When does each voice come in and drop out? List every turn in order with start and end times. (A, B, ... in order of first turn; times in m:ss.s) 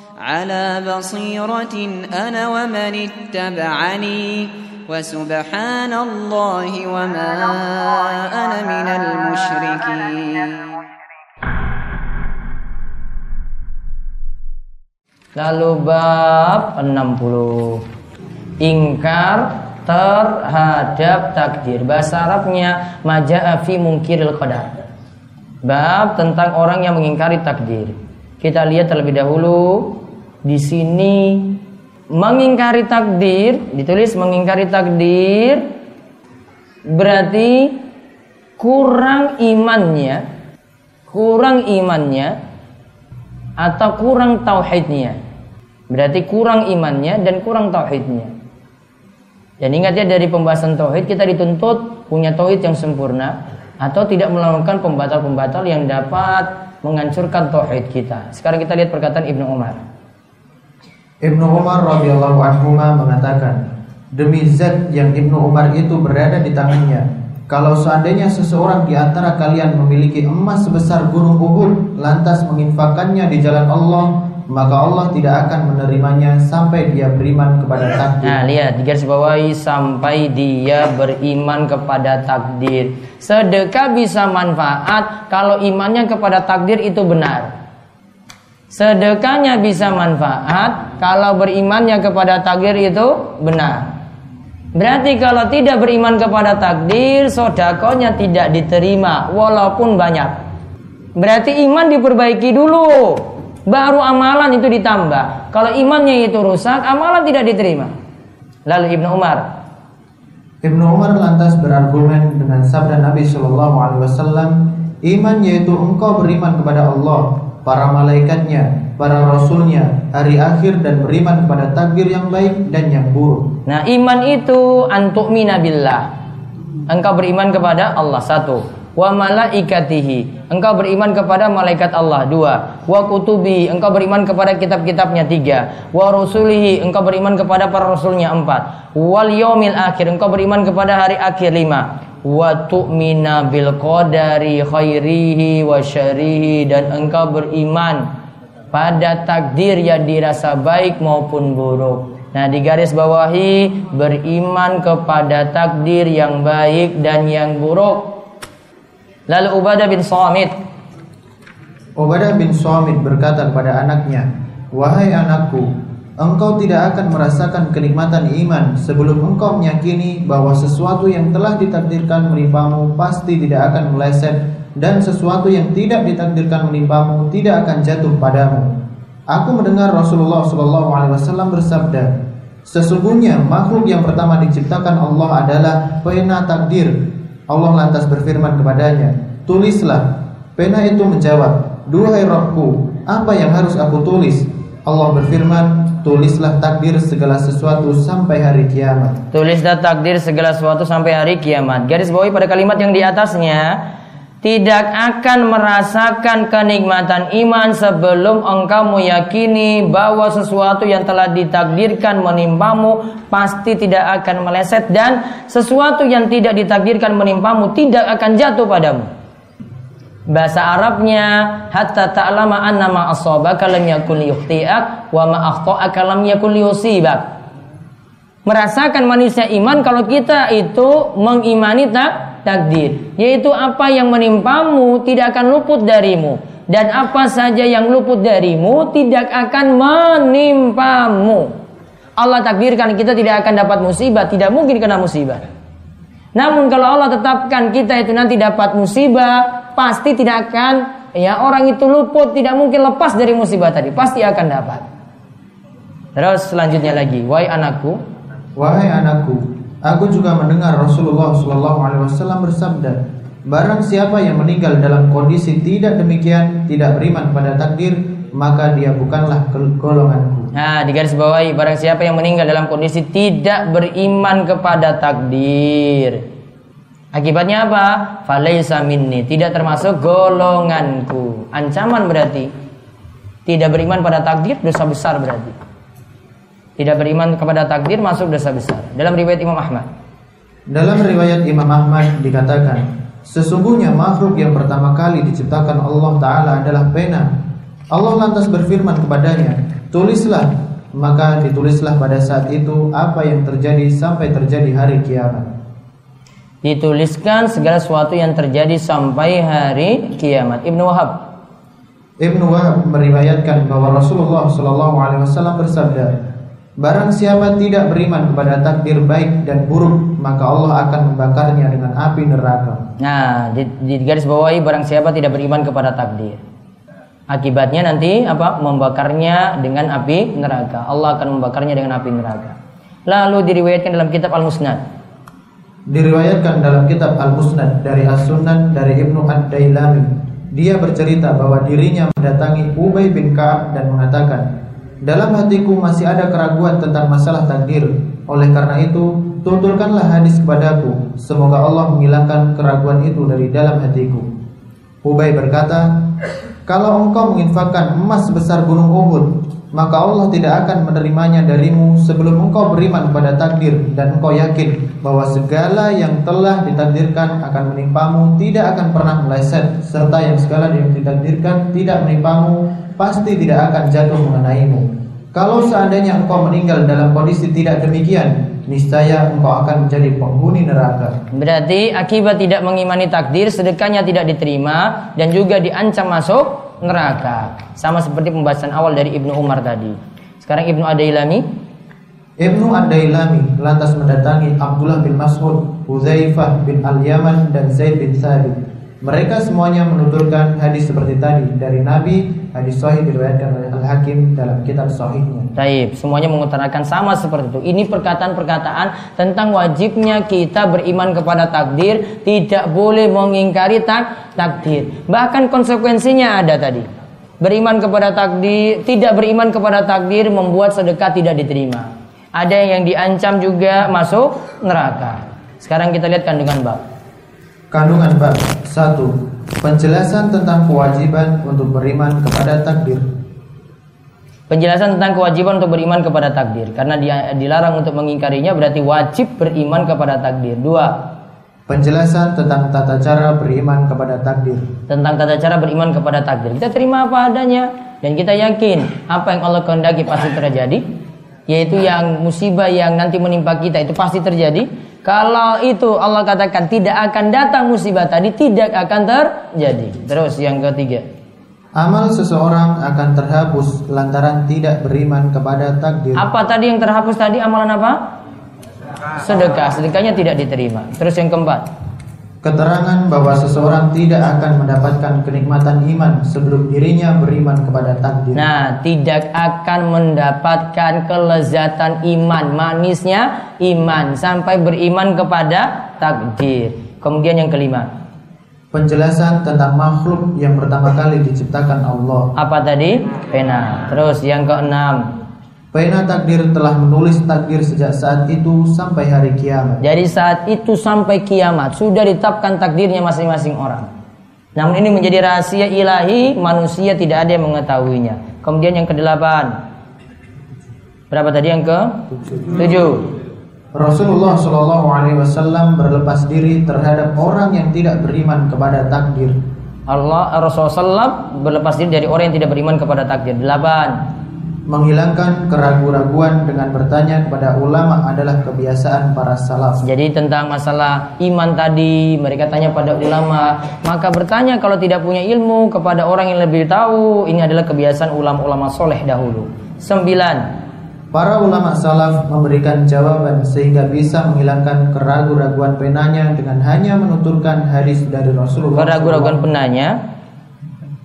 0:00.2-0:10.8 A
0:15.4-0:17.8 B
0:18.6-0:24.7 B
0:25.6-0:31.5 B
0:32.1-0:35.6 B
0:36.9-0:37.8 B
0:38.6-0:40.2 B
0:41.1-0:42.4 B
0:43.6-0:45.2 B
0:45.9-0:48.3 B
0:49.6-0:59.8 B
1:01.2-1:03.6 C
1:04.1-1:18.4 C
1:18.2-1:27.5 B
1:28.7-1:33.9 B
1:34.8-1:40.4 B
1:41.2-1:47.9 B
1:48.7-1:49.4 B
1:50.6-2:03.4 C
2:03.7-2:06.1 B
2:06.9-2:28.1 B
2:28.7-2:38.1 B
2:39.3-2:40.5 B
2:42.0-2:45.7 C
2:46.2-2:58.7 C
2:59.3-3:02.1 C
3:02.7-3:07.0 C
3:07.5-3:10.0 C
3:10.6-3:19.2 C
3:19.3-3:23.8 B
3:24.4-3:39.1 B
3:40.3-3:47.2 B
3:48.4-4:01.5 B
4:02.2-4:05.4 B
4:06.4-4:14.8 B
4:16.2-4:18.0 B
4:18.6-4:23.0 C
4:23.5-4:30.5 C
4:30.5-4:36.2 B
4:37.1-4:42.5 B
4:43.5-4:45.6 B
4:46.8-4:49.9 B
4:50.7-4:57.3 C
4:57.9-5:05.5 C
5:06.6-5:11.2 B
5:12.2-5:16.1 C
5:16.8-5:22.8 C
5:23.0-5:26.4 B
5:27.3-5:32.6 B
5:33.1-5:34.8 B
5:35.9-5:44.4 C
5:45.0-5:54.3 C
5:55.0-5:55.9 C
5:56.7-6:21.1 C
6:21.3-6:31.4 B
6:32.4-6:45.5 C
6:45.6-6:56.9 B
6:57.4-7:06.8 B
7:07.7-7:13.0 C
7:14.5-7:20.9 B
7:21.7-7:24.6 C
7:24.9-7:30.8 B
7:31.5-7:41.0 B
7:41.8-7:46.2 C
7:46.2-7:48.0 B
7:49.2-7:51.6 B
7:52.4-7:58.4 C
7:58.4-8:07.9 B
8:08.7-8:12.3 C
8:12.4-8:15.1 B
8:15.7-8:19.8 C
8:19.8-8:23.9 B
8:24.6-8:29.6 B
8:31.1-8:33.1 B
8:33.8-8:39.3 C
8:39.9-8:44.0 B
8:44.7-8:49.8 C
8:49.8-9:00.4 B
9:01.1-9:09.4 C
9:08.8-9:09.9 B